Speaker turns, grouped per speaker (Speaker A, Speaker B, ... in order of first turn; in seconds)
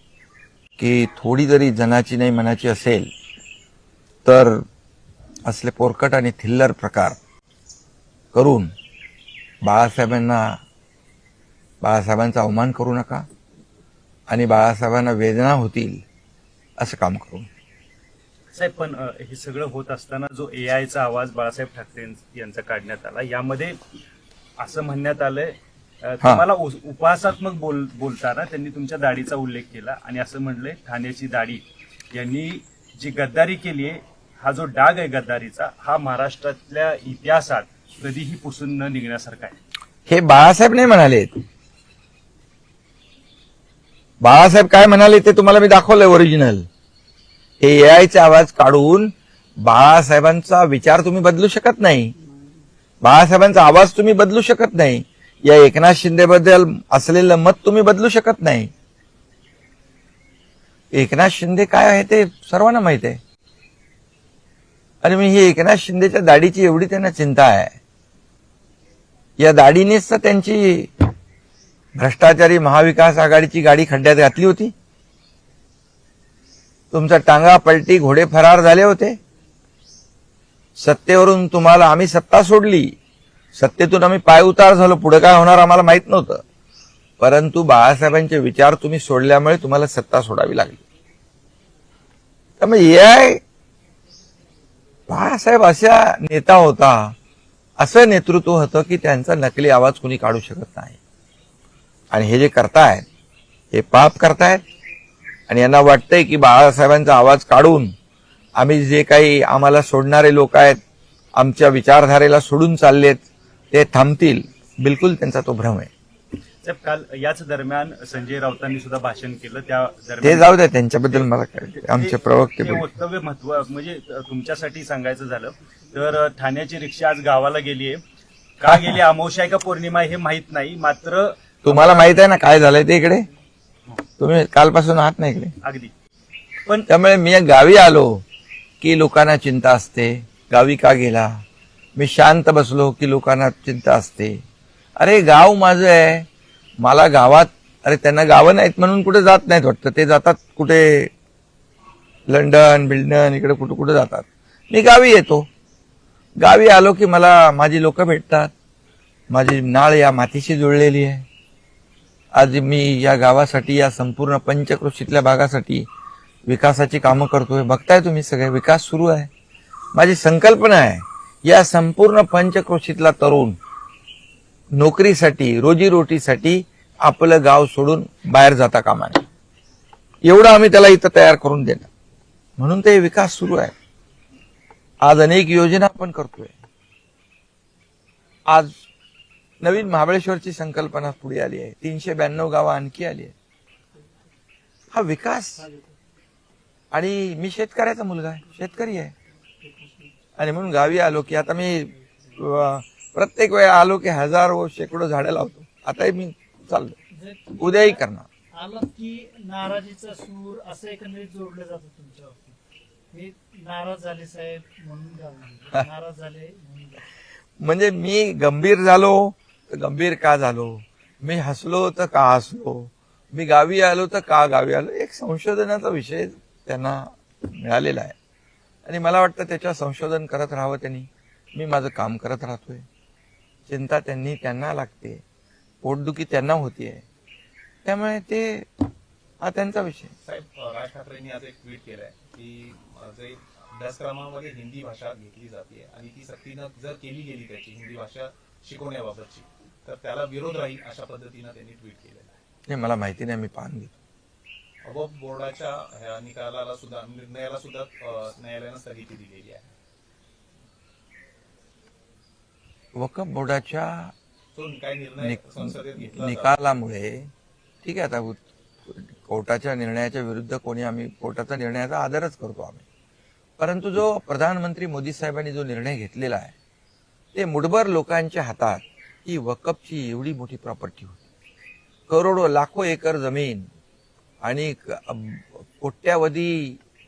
Speaker A: 0.8-3.1, 4.2-4.7, 5.5-7.2, 8.3-8.7, 9.6-10.6, 11.8-13.3, 14.3-16.1, 16.8-17.5, 40.1-41.4, 44.2-46.7, 47.6-52.1, 53.0-58.7, 60.9-63.2, 65.0-67.8, 69.4-71.1, 72.0-74.7, 76.9-79.2, 80.8-83.0, 83.5-86.4, 87.2-90.8, 92.6-93.4, 95.1-97.2, 97.8-101.0, 102.1-103.1, 103.7-104.6, 105.5-108.0, 108.6-110.8, 111.3-115.9, 120.2-122.8, 128.7-129.0, 131.6-133.3, 134.2-135.5, 136.9-138.2, 138.8-141.4, 141.9-144.4, 145.0-146.3, 146.8-151.1, 152.3-155.5, 156.4-158.5, 159.3-161.3, 162.3-165.9, 166.5-169.3, 169.9-173.6, 174.7-179.3, 180.2-181.9, 182.6-183.8, 185.0-186.6, 188.5-188.8, 189.6-193.3, 194.9-195.6, 196.9-199.1, 200.4-207.0, 207.6-208.3, 217.6-228.2, 228.8-232.9, 233.7-235.2, 235.8-237.1, 237.8-238.7, 239.4-240.2, 252.7-253.9, 262.9-264.1, 265.2-267.3, 267.8-272.8, 273.6-276.6, 277.3-281.2, 282.1-283.7, 284.4-286.8
Speaker B: 18.5-23.8, 24.6-39.6, 116.6-120.5, 121.8-128.0, 128.6-132.1, 135.6-135.9
Speaker C: 199.6-200.1, 207.1-208.0, 208.5-212.6, 213.1-217.0
Speaker D: 240.2-252.3, 254.8-259.7, 264.6-266.5